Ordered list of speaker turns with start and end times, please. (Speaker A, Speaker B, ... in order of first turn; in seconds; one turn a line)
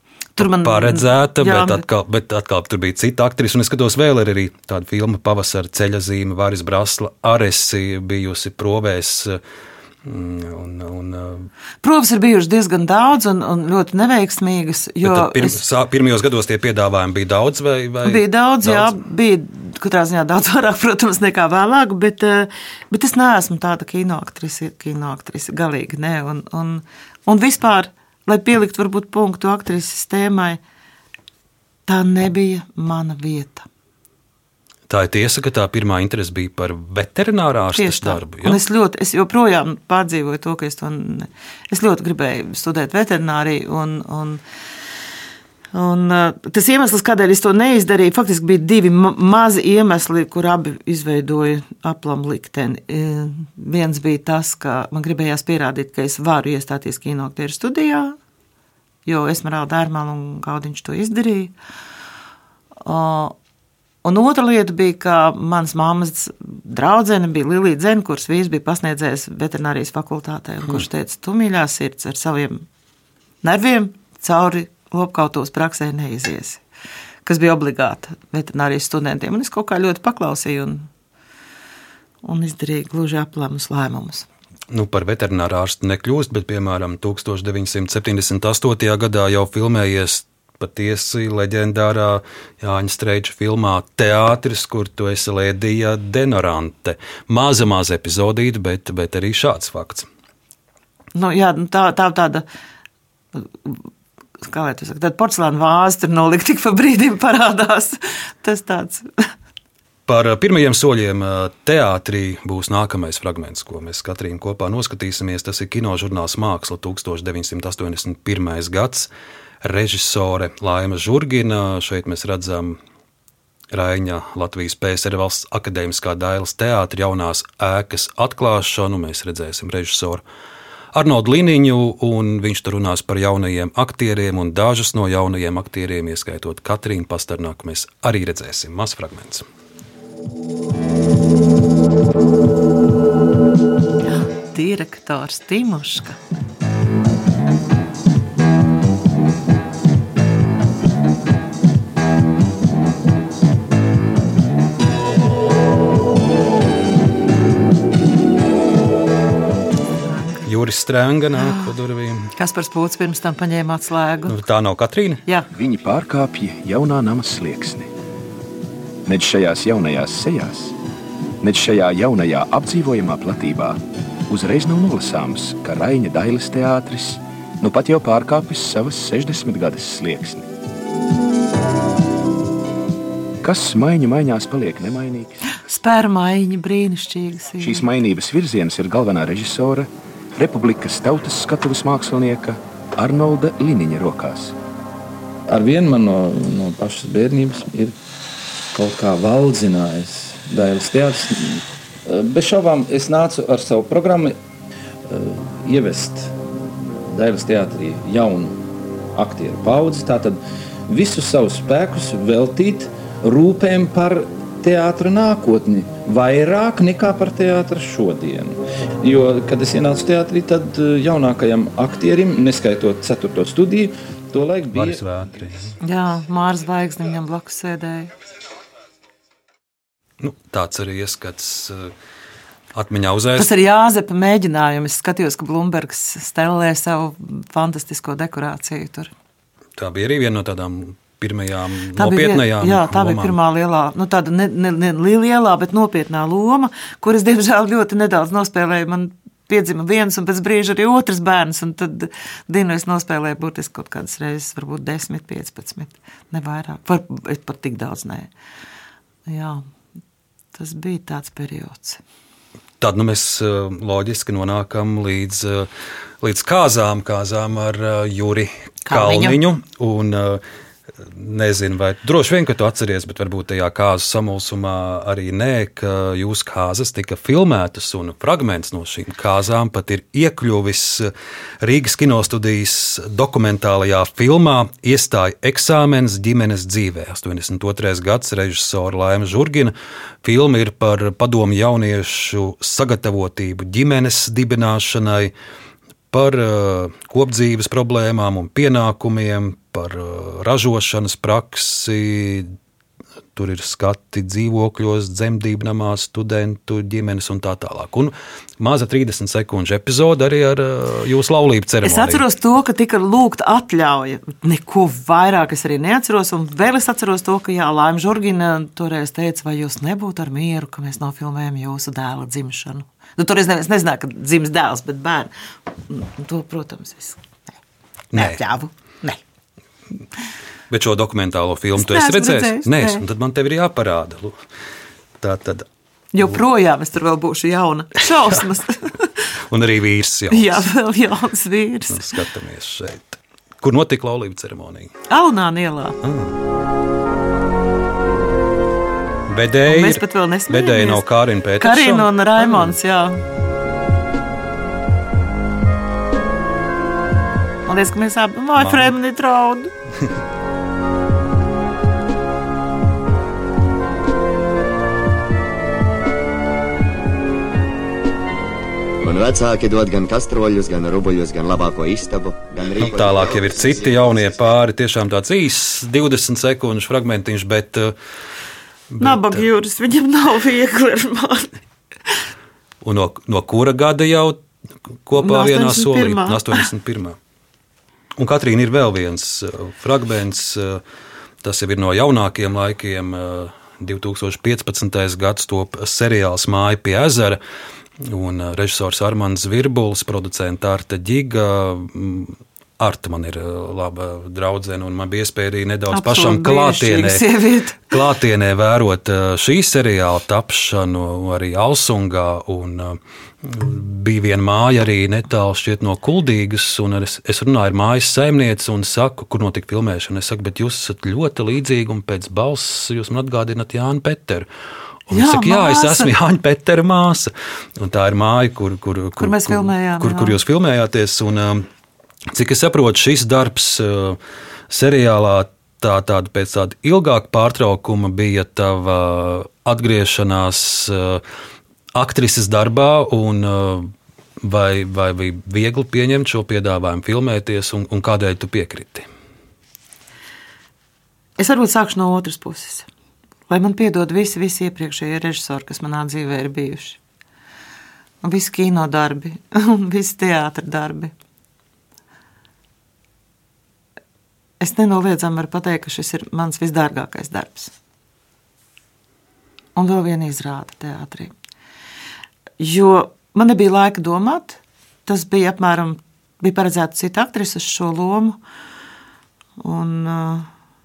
Speaker A: 0.3-1.8
Speaker B: 0.4-9.4
Speaker B: 10.0-11.5
Speaker A: 11.8-15.6
Speaker B: 15.0-19.0
Speaker A: 18.0-30.6
Speaker A: 31.9-33.7
Speaker B: 34.9-38.6
Speaker A: 37.7-44.4
Speaker A: 45.7-58.1
Speaker A: 59.0-61.5
Speaker A: 62.8-63.3
Speaker A: 64.0-72.6
Speaker A: 73.4-76.6
Speaker A: 77.2-80.9
Speaker A: 82.2-84.3
Speaker B: 84.7-100.1
Speaker A: 101.1-102.5
Speaker A: 103.3-103.8
Speaker A: 104.4-109.1
Speaker B: 110.1-119.1
Speaker B: 119.6-122.8
Speaker B: 123.7-130.2
Speaker B: 130.9-139.4
Speaker A: 144.5-146.2
Speaker A: 160.0-160.5
Speaker B: 160.4-162.3
Speaker A: 161.3-161.7
Speaker A: 162.3-164.4
Speaker B: 164.3-165.2
Speaker C: 165.5-167.9
Speaker C: 169.1-170.7
Speaker C: 171.4-180.5
Speaker C: 183.4-185.5
Speaker A: 185.6-187.9
Speaker C: 187.6-194.5
Speaker D: 195.5-197.9
Speaker D: 198.7-204.4
Speaker D: 205.1-206.3
Speaker D: 207.1-208.6
Speaker D: 209.2-225.0
Speaker B: 224.7-225.7
Speaker A: 225.8-228.1
Speaker B: 230.2-231.9
Speaker B: 232.7-233.5
Speaker A: 233.4-239.1
Speaker B: 239.8-243.3
Speaker A: 242.0-258.3
Speaker A: 259.3-259.6
Speaker A: 260.5-262.0
Speaker B: 262.8-265.7
Speaker B: 266.2-270.4
Speaker A: 268.9-269.4
Speaker B: 270.9-295.3
Speaker B: 296.1-302.5
Speaker B: 303.3-312.2
Speaker A: 311.8-325.3
Speaker A: 325.9-327.5
Speaker B: 328.1-328.4
Speaker A: 328.1-329.2
Speaker B: 330.7-334.4
Speaker A: 331.8-333.0
Speaker B: 335.2-335.7
Speaker A: 336.1-339.1
Speaker B: 339.5-340.7
Speaker A: 340.3-342.1
Speaker B: 341.9-344.9
Speaker A: 345.1-346.0
Speaker B: 346.0-346.4
Speaker B: 349.3-352.8
Speaker A: 349.6-351.0
Speaker A: 351.6-353.2
Speaker A: 357.6-359.7
Speaker B: 358.6-358.9
Speaker E: 369.0-374.2
Speaker B: 372.8-377.9
Speaker B: 378.9-379.4
Speaker A: 379.0-381.6
Speaker B: 382.8-384.4
Speaker B: 385.1-387.2
Speaker A: 385.1-386.7
Speaker B: 388.2-390.8
Speaker B: 391.4-397.4
Speaker B: 398.0-407.2
Speaker A: 405.9-407.9
Speaker B: 407.9-424.5
Speaker B: 425.1-431.7
Speaker A: 425.1-426.1
Speaker A: 429.2-430.4
Speaker B: 432.3-441.2
Speaker B: 441.9-449.1
Speaker A: 451.4-452.9
Speaker A: 453.5-457.0
Speaker A: 458.2-461.1
Speaker A: 464.6-467.7
Speaker A: 469.8-471.3
Speaker A: 472.6-478.4
Speaker A: 479.6-480.5